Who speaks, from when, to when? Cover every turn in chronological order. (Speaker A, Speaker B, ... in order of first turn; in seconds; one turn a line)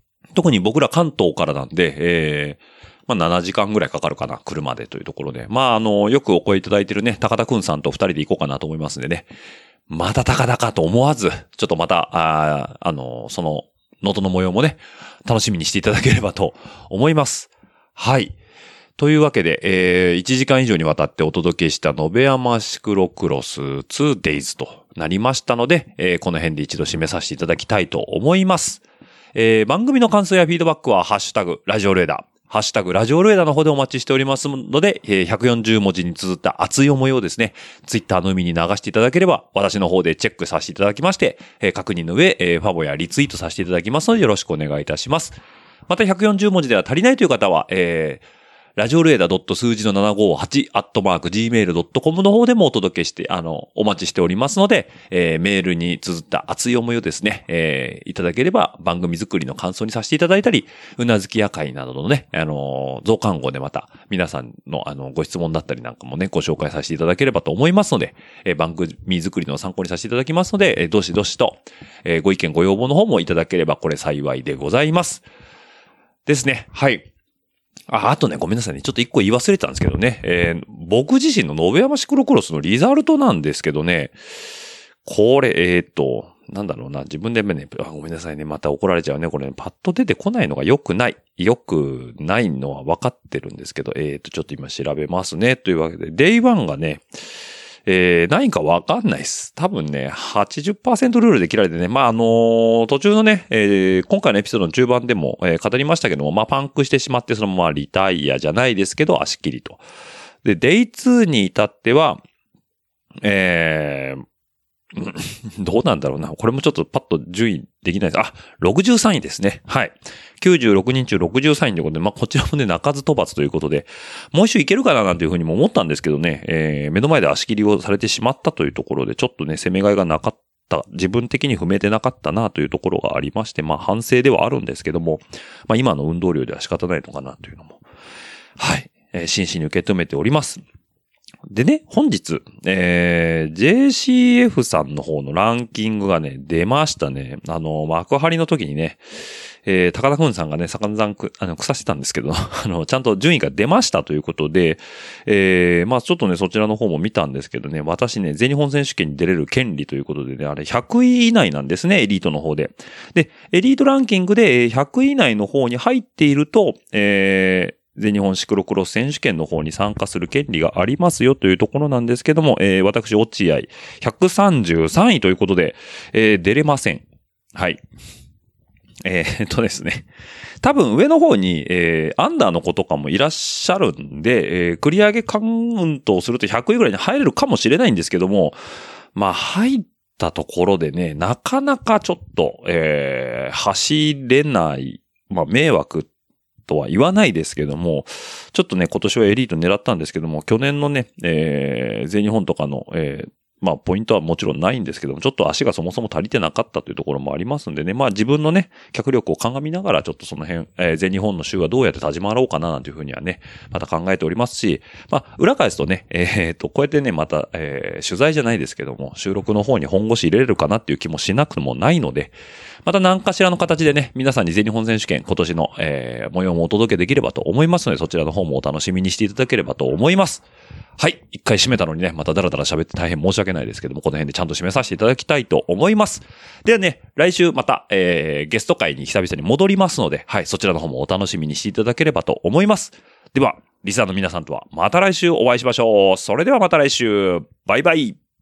Speaker A: 0.3-9.3
Speaker A: 9.9-18.4
Speaker A: 19.0-28.8
Speaker A: 29.3-48.2
Speaker A: 48.8-75.2
Speaker A: 76.3-77.1
Speaker A: 77.9-84.2
Speaker A: 85.0-97.1
Speaker A: 97.9-109.8
Speaker A: 110.4-112.2
Speaker A: 113.2-114.2
Speaker A: 114.9-137.8
Speaker A: 138.6-140.6
Speaker A: 141.5-149.0
Speaker A: 149.6-177.0
Speaker A: 177.6-177.8
Speaker A: 179.0-180.1
Speaker A: 180.6-188.6
Speaker A: 189.1-196.1
Speaker A: 196.7-230.4
Speaker A: 231.0-248.2